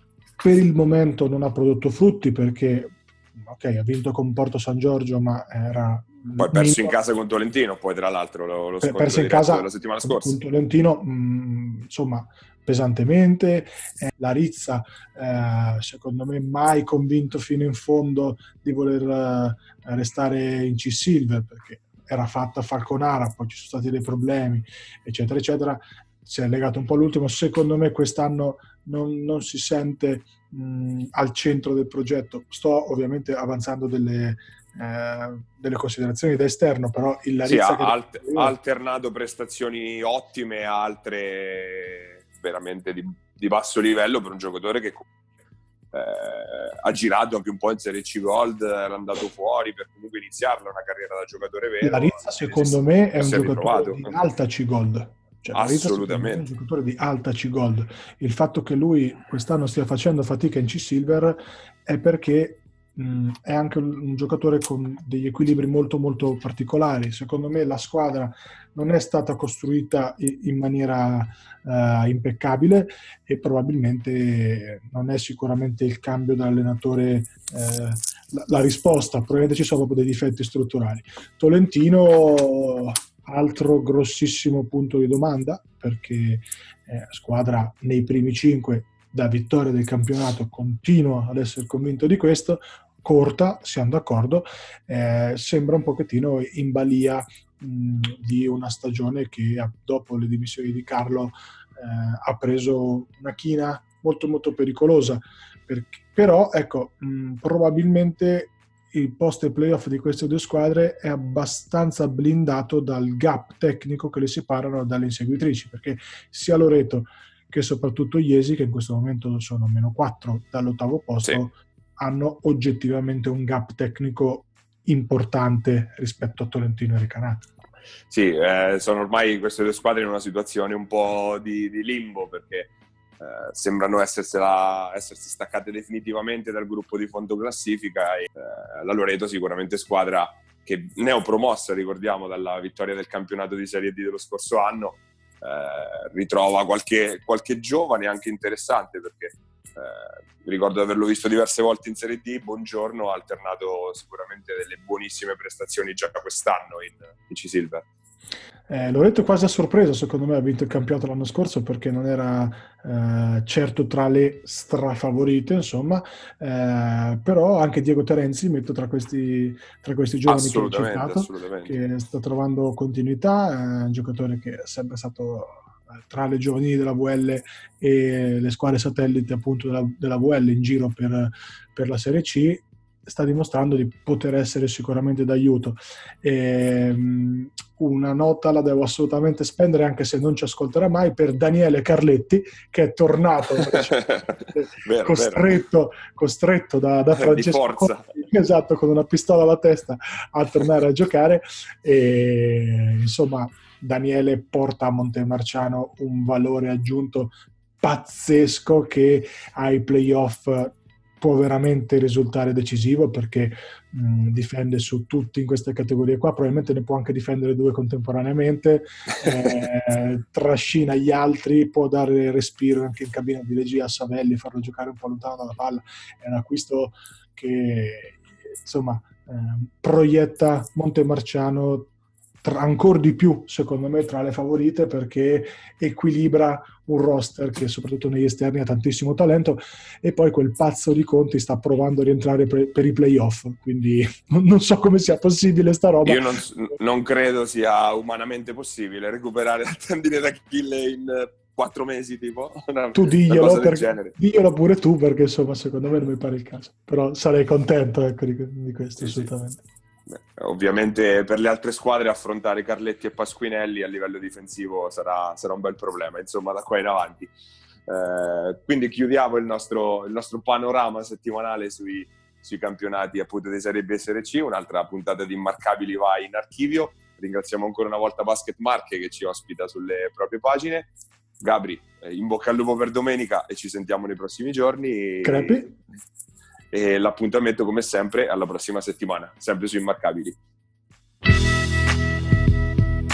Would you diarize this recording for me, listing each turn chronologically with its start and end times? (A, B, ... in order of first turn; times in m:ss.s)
0:00.4-0:07.0 A
0:06.4-0:10.4 B
0:08.8-0:38.5 A
0:37.4-0:45.0 B
0:45.9-0:54.1 B
0:51.8-2:07.5 A
0:55.5-0:56.4 B
2:08.1-2:37.9 B
2:38.7-3:51.9 A
2:50.2-2:51.8 B
3:13.7-3:15.6 B
3:17.1-3:18.1 B
3:52.4-4:06.3 A
4:06.0-4:14.1 B
4:12.9-4:19.6 A
4:19.0-4:19.3 B
4:20.1-4:27.3 B
4:27.9-4:45.7 B
4:45.2-4:45.7 A
4:46.7-4:50.4 B